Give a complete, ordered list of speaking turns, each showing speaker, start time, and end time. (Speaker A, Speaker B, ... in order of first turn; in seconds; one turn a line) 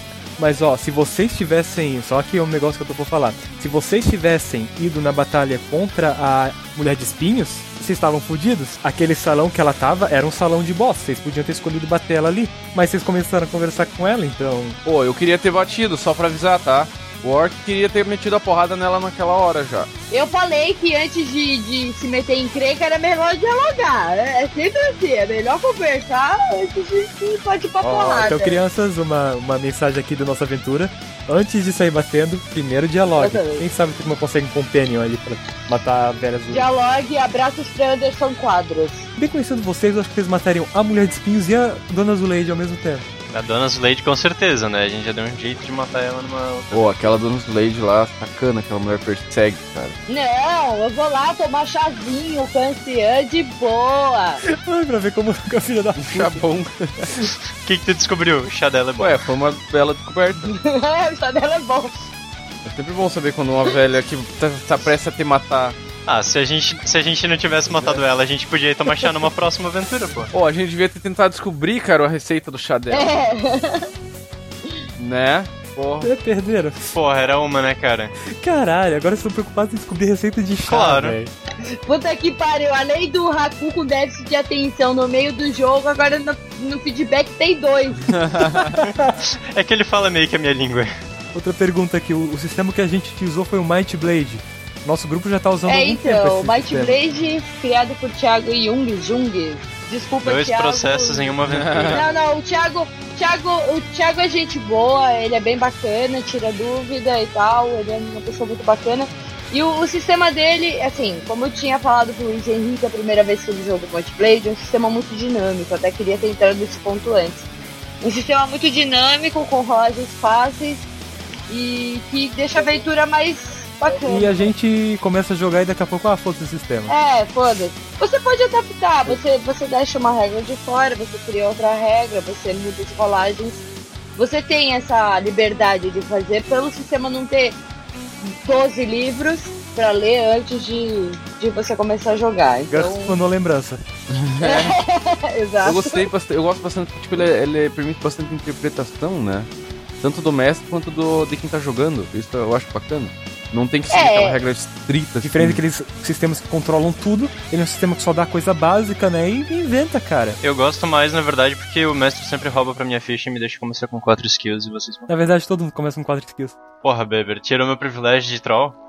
Speaker A: 0.4-14.8
Speaker B: 14.8-19.9
Speaker C: 20.1-28.6
Speaker A: 27.8-36.7
Speaker C: 33.1-33.6
Speaker C: 36.5-39.1
Speaker A: 39.2-43.0
Speaker D: 43.3-47.1
Speaker B: 46.7-50.0
Speaker C: 50.1-54.4
Speaker A: 54.4-56.4
Speaker B: 56.0-57.2
Speaker D: 57.6-59.2
Speaker B: 59.0-60.5
Speaker C: 60.5-61.9
Speaker B: 62.6-65.8
Speaker D: 66.1-70.3
Speaker B: 67.7-68.0
Speaker B: 70.3-73.1
Speaker C: 72.9-73.9
Speaker B: 75.0-76.1
Speaker A: 76.0-77.0
Speaker D: 76.9-78.1
Speaker A: 78.3-81.3
Speaker D: 80.7-81.2
Speaker C: 81.8-88.7
Speaker B: 88.1-88.8
Speaker D: 88.8-90.9
Speaker A: 91.3-97.0
Speaker C: 95.7-101.3
Speaker D: 100.2-102.1
Speaker B: 101.5-102.0
Speaker C: 101.9-117.5
Speaker C: 118.0-120.8
Speaker C: 121.5-124.5
Speaker A: 124.0-126.9
Speaker C: 126.9-133.6
Speaker C: 134.2-137.6
Speaker C: 138.2-143.2
Speaker A: 142.7-143.8
Speaker B: 144.1-144.8
Speaker C: 144.4-146.1
Speaker B: 145.6-149.5
Speaker B: 150.0-155.6
Speaker C: 153.9-154.4
Speaker A: 155.2-160.4
Speaker D: 160.4-165.1
Speaker A: 165.1-166.6
Speaker D: 166.8-168.8